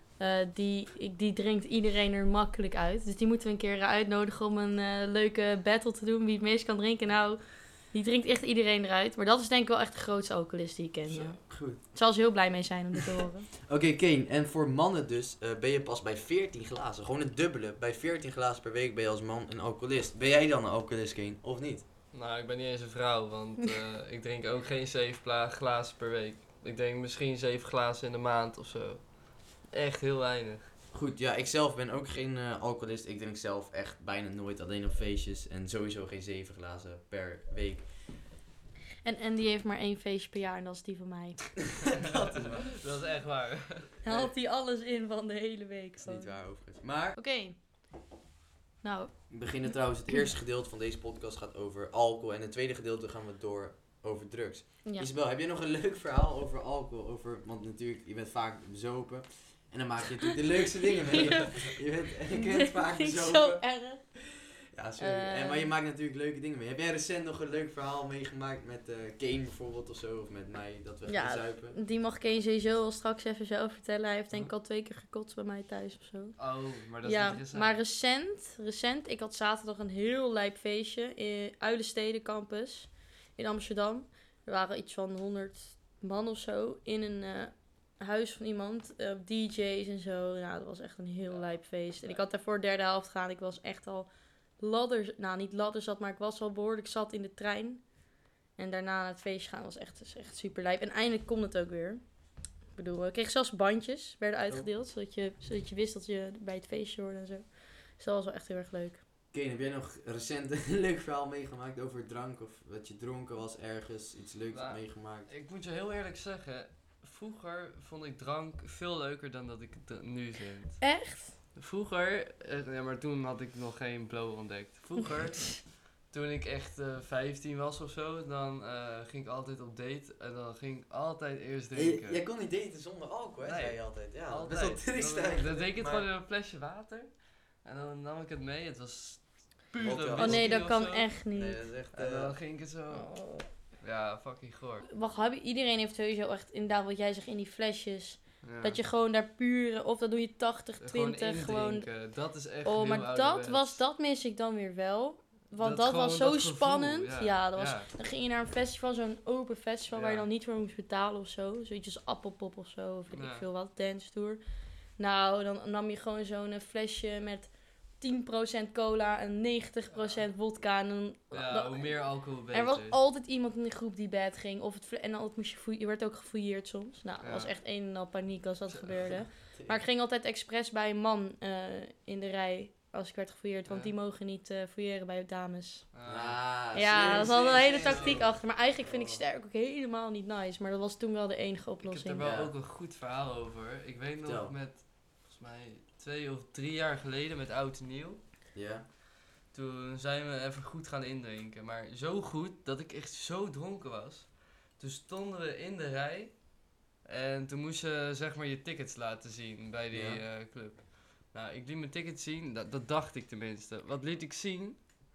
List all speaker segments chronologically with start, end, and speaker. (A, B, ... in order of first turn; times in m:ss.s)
0:00.2-0:13.5 A
0:11.1-0:11.4 B
0:11.4-0:11.8 C
0:13.6-0:21.8 C
0:22.1-0:30.7 B
0:30.9-0:37.9 C
0:39.0-0:41.8 A
0:41.8-0:42.7 C
0:42.0-0:44.3 B
0:44.0-0:46.4 A
0:46.0-0:47.2 C
0:47.1-0:47.6 A
0:48.8-0:49.3 A
0:49.3-1:11.8 C
1:01.1-1:01.7 A
1:01.1-1:01.5 B
1:02.3-1:04.0 A
1:05.0-1:05.7 A
1:11.0-1:16.4 A
1:16.4-1:17.8 B
1:17.0-1:37.8 A
1:31.3-1:32.2 B
1:38.6-1:42.0 A
1:42.7-1:49.0 A
1:49.3-1:55.3 C
1:54.5-2:01.0 B
2:00.8-2:01.3 A
2:01.5-2:12.2 B
2:11.7-2:16.1 C
2:13.4-2:21.1 B
2:19.8-2:20.7 C
2:20.1-2:21.6 A
2:21.3-2:22.4 C
2:21.9-2:23.1 B
2:22.9-2:23.5 A
2:23.8-2:24.9 B
2:24.9-2:31.9 A
2:28.4-2:28.8 B
2:30.8-2:33.8 B
2:32.6-2:44.4 A
2:35.6-2:37.9 B
2:39.9-2:40.2 B
2:43.1-2:43.4 B
2:45.0-3:05.8 A
2:49.9-2:50.2 B
2:51.3-2:53.0 B
2:57.2-2:57.5 B
2:58.7-2:59.2 B
2:59.5-2:59.8 C
3:05.9-3:08.2 B
3:06.0-3:09.2 C
3:06.7-3:12.2 A
3:11.8-3:18.2 B
3:12.2-3:12.5 C
3:14.2-3:14.5 C
3:18.5-3:18.8 C
3:19.5-3:26.5 B
3:27.0-3:34.9 B
3:29.9-3:30.2 C